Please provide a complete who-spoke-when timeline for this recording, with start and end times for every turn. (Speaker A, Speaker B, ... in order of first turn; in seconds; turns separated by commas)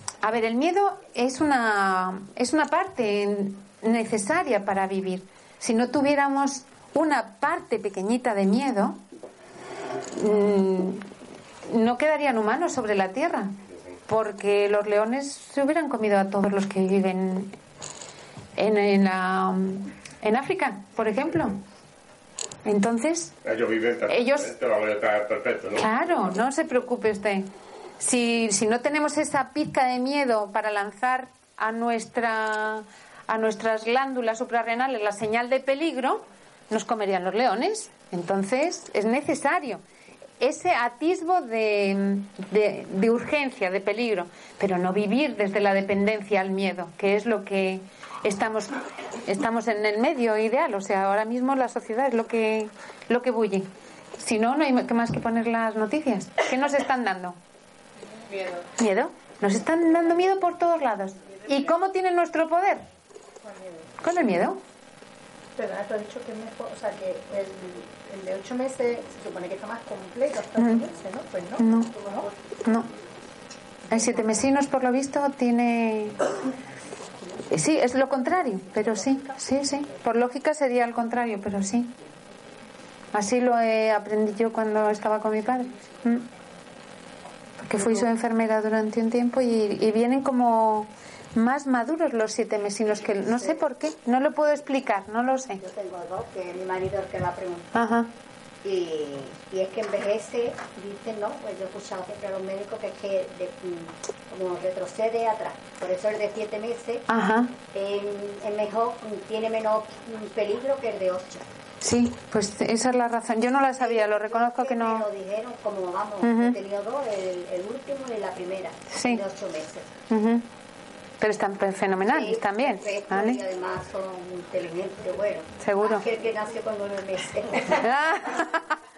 Speaker A: 0.2-9.0, Speaker A: 10.1-11.1, Speaker A: 11.7-13.5, Speaker A: 14.1-17.5, Speaker A: 18.6-21.6, Speaker A: 22.6-23.3, Speaker B: 23.4-25.9, Speaker A: 24.1-24.5, Speaker A: 25.8-27.5, Speaker A: 28.0-39.8, Speaker A: 40.4-57.4, Speaker A: 58.7-62.9, Speaker C: 63.4-63.9, Speaker A: 64.0-64.6, Speaker C: 65.6-72.3, Speaker A: 70.6-70.8, Speaker A: 71.6-71.9, Speaker A: 73.9-76.2, Speaker A: 77.5-81.9, Speaker A: 83.1-86.3, Speaker A: 87.6-95.6, Speaker D: 95.6-97.9, Speaker A: 97.7-98.1, Speaker D: 98.6-107.1, Speaker A: 107.1-107.5, Speaker D: 107.7-111.4, Speaker A: 111.8-115.1, Speaker D: 113.8-119.9, Speaker A: 116.2-116.6, Speaker A: 118.9-119.2, Speaker A: 120.1-120.5, Speaker A: 121.2-123.4, Speaker D: 122.1-127.8, Speaker A: 125.6-126.0, Speaker A: 127.8-128.6